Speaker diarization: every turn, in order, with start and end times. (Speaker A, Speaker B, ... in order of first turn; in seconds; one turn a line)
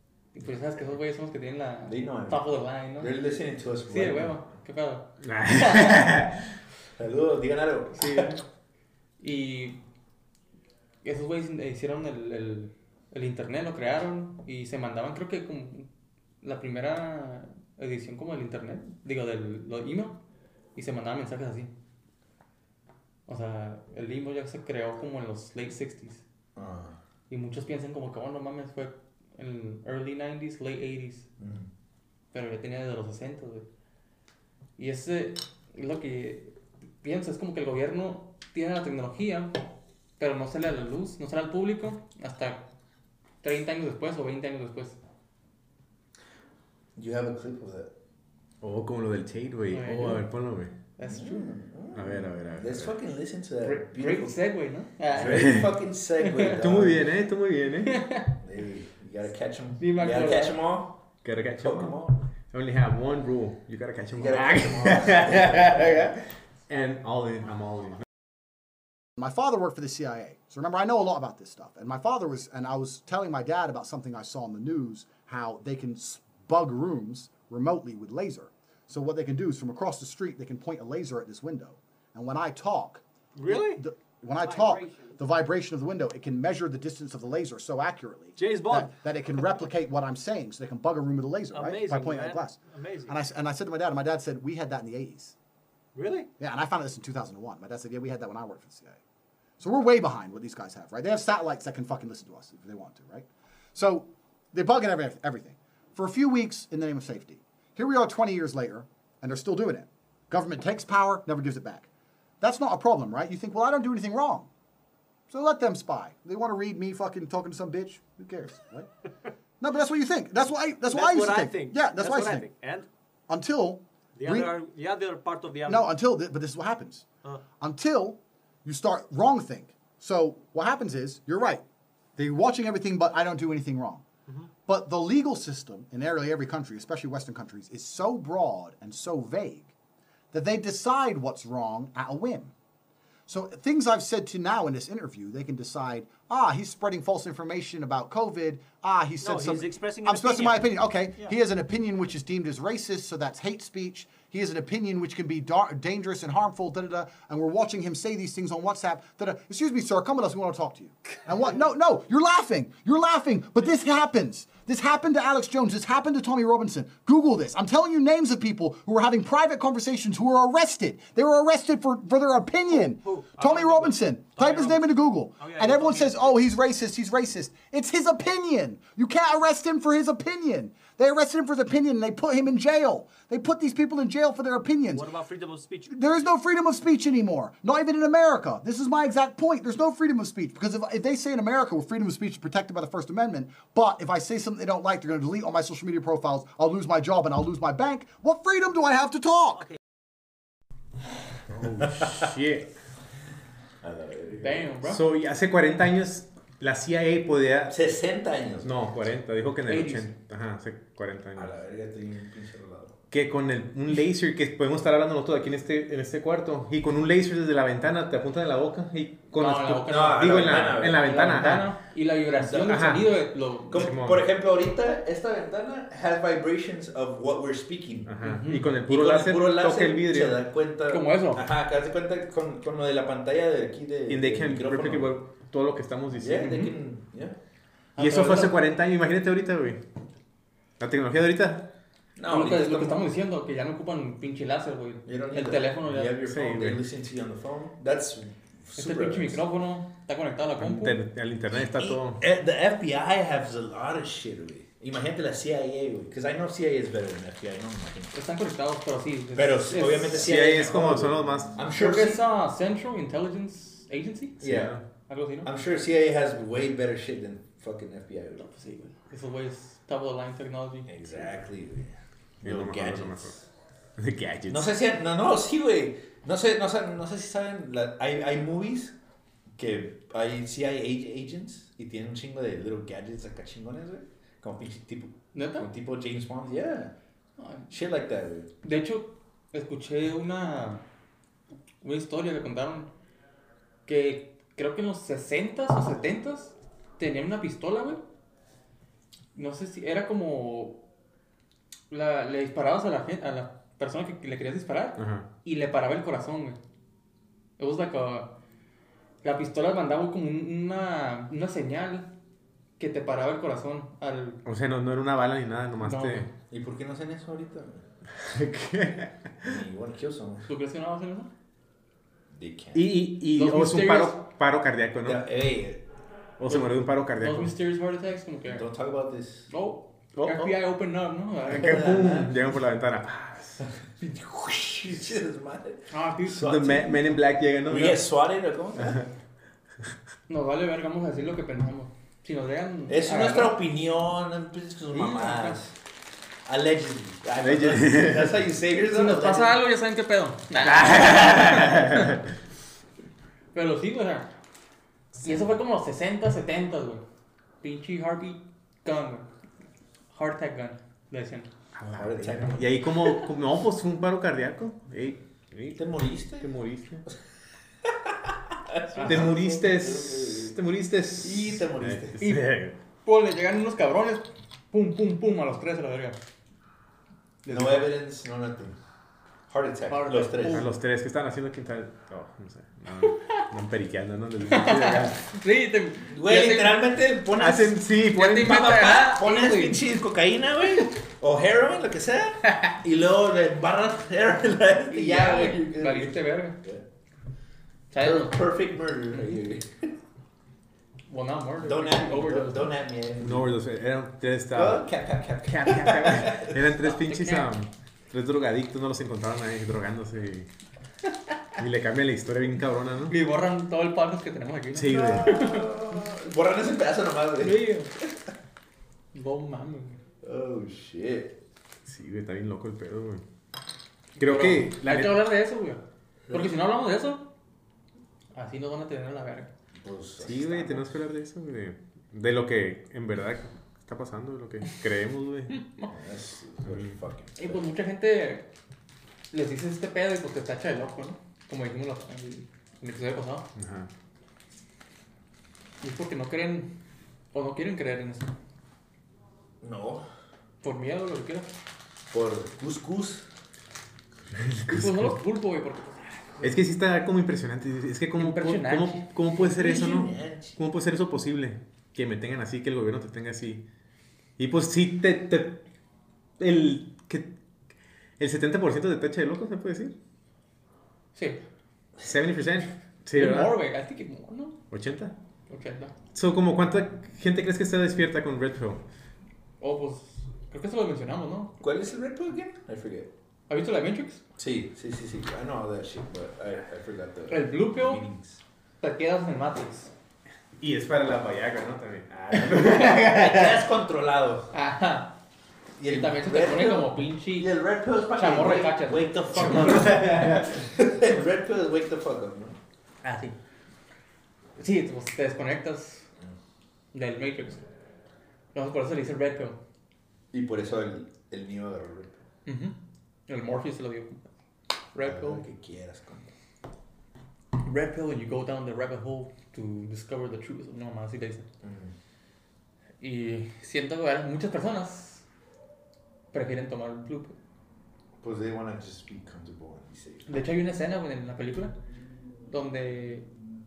Speaker A: 0.3-3.1
Speaker B: 1.9-2.5
Speaker B: 3.0-4.4
Speaker A: 3.9-6.2
Speaker C: 5.2-6.5
Speaker B: 7.0-8.3
Speaker A: 7.9-8.4
Speaker A: 9.2-9.8
Speaker A: 11.0-15.9
Speaker A: 16.4-20.2
Speaker A: 20.7-21.7
Speaker A: 23.3-26.2
Speaker B: 26.6-27.0
Speaker A: 27.3-31.3
Speaker B: 31.4-31.7
Speaker A: 32.3-33.6
Speaker A: 34.8-39.5
Speaker A: 40.2-42.6
Speaker A: 43.4-45.0
Speaker B: 47.0-47.9
Speaker C: 48.6-50.7
Speaker A: 49.7-50.3
Speaker A: 51.0-51.5
Speaker B: 51.0-54.4
Speaker C: 51.9-53.0
Speaker A: 53.6-55.6
Speaker B: 55.1-57.1
Speaker C: 55.2-55.7
Speaker A: 56.2-56.6
Speaker C: 56.6-58.0
Speaker A: 57.8-58.4
Speaker B: 58.4-61.0
Speaker A: 59.8-60.6
Speaker C: 61.2-68.0
Speaker B: 61.5-62.2
Speaker B: 64.1-66.1
Speaker D: 69.2-95.3
Speaker E: 83.3-83.8
Speaker E: 84.4-85.2
Speaker E: 88.4-88.9
Speaker E: 91.5-93.1
Speaker E: 95.9-96.3
Speaker D: 96.4-99.0
Speaker D: 99.6-111.9
Speaker D: 112.4-114.5
Speaker D: 115.3-118.9
Speaker D: 119.6-122.5
Speaker E: 120.9-122.9
Speaker D: 123.3-124.5
Speaker E: 124.2-125.9
Speaker D: 125.7-127.0
Speaker D: 127.6-131.6
Speaker D: 132.2-134.1
Speaker D: 134.7-139.7
Speaker D: 140.3-142.5
Speaker D: 143.3-185.1
Speaker E: 149.2-151.3
Speaker E: 172.7-176.4
Speaker E: 184.9-185.9
Speaker D: 185.9-199.7
Speaker C: 201.5-202.7
Speaker B: 203.8-204.7
Speaker A: 204.4-205.0
Speaker C: 204.8-207.8
Speaker B: 207.7-208.8
Speaker C: 208.6-211.5
Speaker A: 209.7-210.1
Speaker B: 211.3-213.0
Speaker C: 213.1-221.7
Speaker A: 219.3-223.9
Speaker B: 219.8-221.2
Speaker B: 222.4-222.9
Speaker C: 222.7-223.1
Speaker B: 223.7-228.1
Speaker C: 223.7-224.2
Speaker C: 228.1-230.4
Speaker A: 228.2-228.7
Speaker B: 228.8-235.1
Speaker A: 230.9-231.4
Speaker C: 234.1-236.6
Speaker B: 236.2-237.3
Speaker A: 236.4-236.7
Speaker A: 237.9-238.6
Speaker C: 238.0-239.8
Speaker C: 240.8-241.7
Speaker B: 242.2-243.1
Speaker A: 242.2-246.2
Speaker B: 245.1-249.4
Speaker C: 246.2-246.8
Speaker A: 248.8-251.0
Speaker C: 250.6-252.2
Speaker B: 251.5-258.1
Speaker A: 258.1-260.5
Speaker B: 259.3-262.2
Speaker C: 260.1-261.6
Speaker A: 261.7-264.4
Speaker C: 264.4-264.8
Speaker B: 264.4-264.8
Speaker A: 265.1-265.5
Speaker B: 265.4-268.5
Speaker A: 268.4-271.2
Speaker B: 270.9-273.5
Speaker C: 272.4-273.3
Speaker C: 274.0-274.7
Speaker B: 274.5-278.9
Speaker B: 279.6-286.9
Speaker A: 285.3-285.7
Speaker A: 287.4-287.7
Speaker B: 287.7-288.5
Speaker A: 288.6-290.8
Speaker A: 291.8-292.9
Speaker A: 293.9-298.0
Speaker A: 299.3-300.8
Speaker A: 301.9-306.6
Speaker C: 305.0-305.3
Speaker A: 307.6-308.3
Speaker A: 309.2-312.1
Speaker A: 312.8-314.4
Speaker C: 314.4-316.3
Speaker A: 315.8-316.3
Speaker B: 316.5-317.8
Speaker C: 318.2-319.6
Speaker B: 319.4-320.5
Speaker A: 320.5-321.3
Speaker B: 322.3-322.9
Speaker C: 322.7-325.2
Speaker A: 323.3-324.2
Speaker B: 325.0-325.8
Speaker C: 326.4-327.5
Speaker A: 326.4-328.6
Speaker B: 328.5-329.5
Speaker A: 329.5-331.9
Speaker C: 330.1-330.5
Speaker B: 331.5-332.4
Speaker C: 331.5-333.6
Speaker B: 333.6-337.1
Speaker A: 335.9-336.4
Speaker C: 336.3-338.0
Speaker B: 337.6-339.1
Speaker A: 340.3-343.6
Speaker B: 342.9-345.8
Speaker A: 344.9-345.6
Speaker B: 346.4-349.6
Speaker C: 347.4-348.4
Speaker A: 348.9-352.2
Speaker C: 350.6-352.3
Speaker A: 353.5-354.3
Speaker A: 355.2-357.0
Speaker A: 357.6-359.3
Speaker A: 360.1-361.5
Speaker C: 361.7-365.9
Speaker B: 361.9-363.3
Speaker B: 365.8-366.5
Speaker C: 366.4-367.0
Speaker B: 367.8-370.6
Speaker A: 368.9-369.3
Speaker C: 369.0-372.8
Speaker B: 371.2-372.4
Speaker A: 372.2-372.5
Speaker A: 373.0-376.2
Speaker B: 377.4-378.8
Speaker C: 377.5-377.8
Speaker B: 379.5-380.7
Speaker A: 379.9-380.7
Speaker C: 380.4-385.2
Speaker A: 383.0-383.5
Speaker A: 384.5-386.8
Speaker B: 386.1-396.8
Speaker C: 387.4-388.8
Speaker A: 388.1-389.8
Speaker A: 392.5-392.7
Speaker A: 394.9-396.6
Speaker A: 397.9-398.4
Speaker B: 398.0-399.9
Speaker A: 401.1-402.7
Speaker B: 401.6-403.5
Speaker C: 403.2-404.8
Speaker B: 404.5-406.7
Speaker C: 405.5-410.5
Speaker A: 406.9-407.5
Speaker C: 411.6-413.1
Speaker A: 413.1-416.0
Speaker C: 414.7-415.4
Speaker B: 414.8-418.1
Speaker A: 417.4-418.0
Speaker A: 419.1-420.0
Speaker B: 420.2-421.4
Speaker C: 421.8-423.2
Speaker C: 424.2-425.2
Speaker A: 424.2-427.3
Speaker B: 426.3-426.5
Speaker A: 428.3-429.5
Speaker B: 429.8-430.8
Speaker C: 430.2-435.6
Speaker A: 435.5-435.9
Speaker B: 435.9-437.6
Speaker C: 436.6-436.9
Speaker A: 437.4-438.5
Speaker A: 439.3-443.5
Speaker C: 443.5-443.9
Speaker A: 445.8-446.7
Speaker A: 447.3-448.3
Speaker B: 449.6-450.0
Speaker A: 450.6-451.5
Speaker B: 452.1-453.3
Speaker C: 454.3-455.2
Speaker A: 454.7-456.6
Speaker C: 456.4-463.6
Speaker A: 458.2-459.1
Speaker B: 459.4-460.6
Speaker C: 464.4-465.6
Speaker C: 466.4-467.3
Speaker C: 468.2-469.9
Speaker A: 471.1-471.4
Speaker C: 472.0-473.6
Speaker A: 473.1-474.6
Speaker C: 474.7-475.1
Speaker A: 475.5-475.9
Speaker C: 476.1-478.8
Speaker A: 479.6-481.6
Speaker B: 481.6-483.1
Speaker A: 483.5-484.2
Speaker B: 484.4-488.4
Speaker A: 487.3-488.0
Speaker A: 488.8-489.9
Speaker C: 490.6-493.6
Speaker B: 492.3-494.5
Speaker A: 494.5-495.1
Speaker B: 495.8-502.6
Speaker A: 495.8-497.5
Speaker A: 498.1-500.0
Speaker C: 499.4-500.4
Speaker A: 503.0-503.4
Speaker A: 504.6-506.1
Speaker A: 506.9-507.6
Speaker A: 508.5-509.6
Speaker B: 510.3-512.2
Speaker A: 512.5-512.8
Speaker A: 513.3-514.3
Speaker A: 514.9-515.4
Speaker B: 515.0-516.3
Speaker A: 517.5-521.5
Speaker B: 521.6-521.9
Speaker A: 523.0-525.2
Speaker A: 526.3-527.3
Speaker B: 528.2-530.3
Speaker A: 530.2-531.8
Speaker A: 532.5-533.3